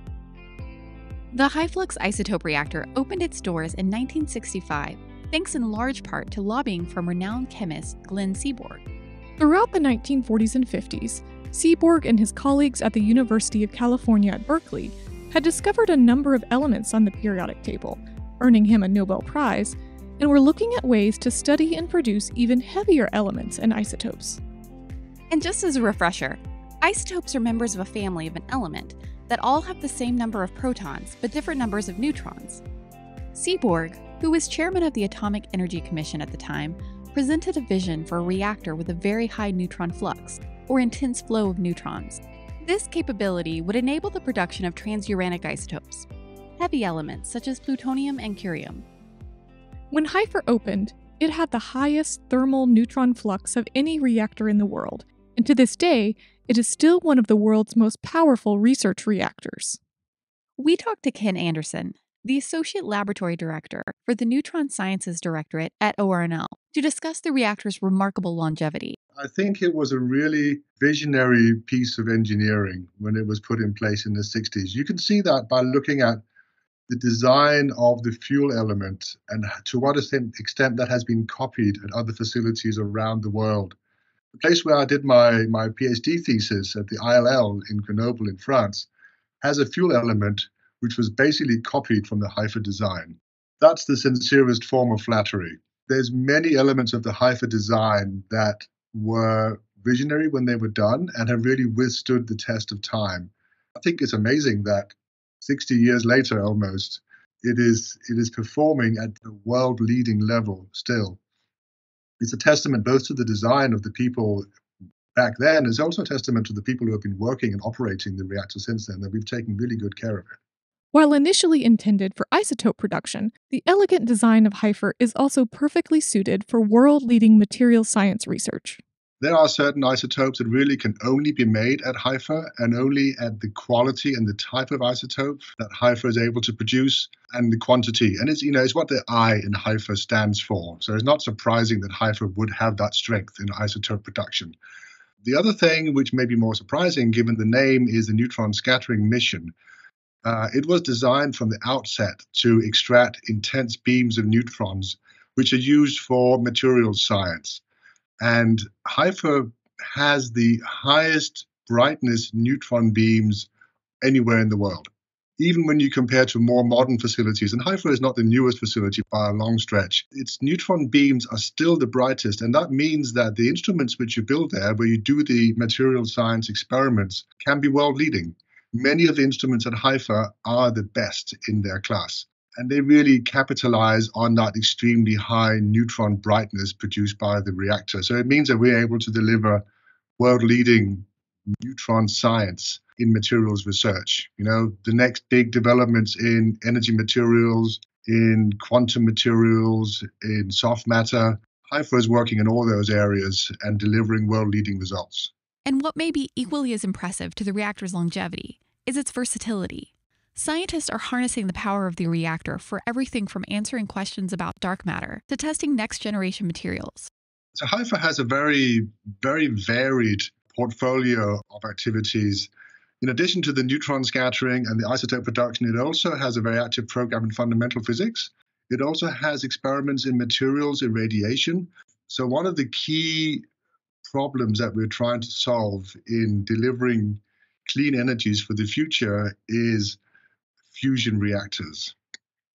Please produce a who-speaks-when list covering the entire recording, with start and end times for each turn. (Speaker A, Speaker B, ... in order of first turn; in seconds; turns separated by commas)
Speaker A: 1.3-8.8, Speaker B: 9.4-24.4, Speaker A: 25.3-32.6, Speaker A: 33.4-46.1, Speaker A: 46.6-48.9, Speaker B: 49.9-59.8, Speaker A: 60.6-69.0, Speaker C: 69.2-76.2, Speaker C: 76.9-83.8, Speaker C: 84.3-88.9, Speaker C: 89.4-111.2, Speaker C: 112.2-114.5, Speaker C: 115.2-120.4, Speaker B: 120.9-128.8, Speaker C: 129.2-144.6, Speaker C: 145.2-149.5, Speaker C: 150.2-157.6, Speaker C: 158.2-163.5, Speaker C: 164.0-189.6, Speaker C: 190.2-191.1, Speaker C: 191.6-205.3, Speaker A: 205.7-217.1, Speaker C: 217.6-222.5, Speaker C: 223.0-233.4, Speaker C: 234.1-240.0, Speaker C: 240.7-241.9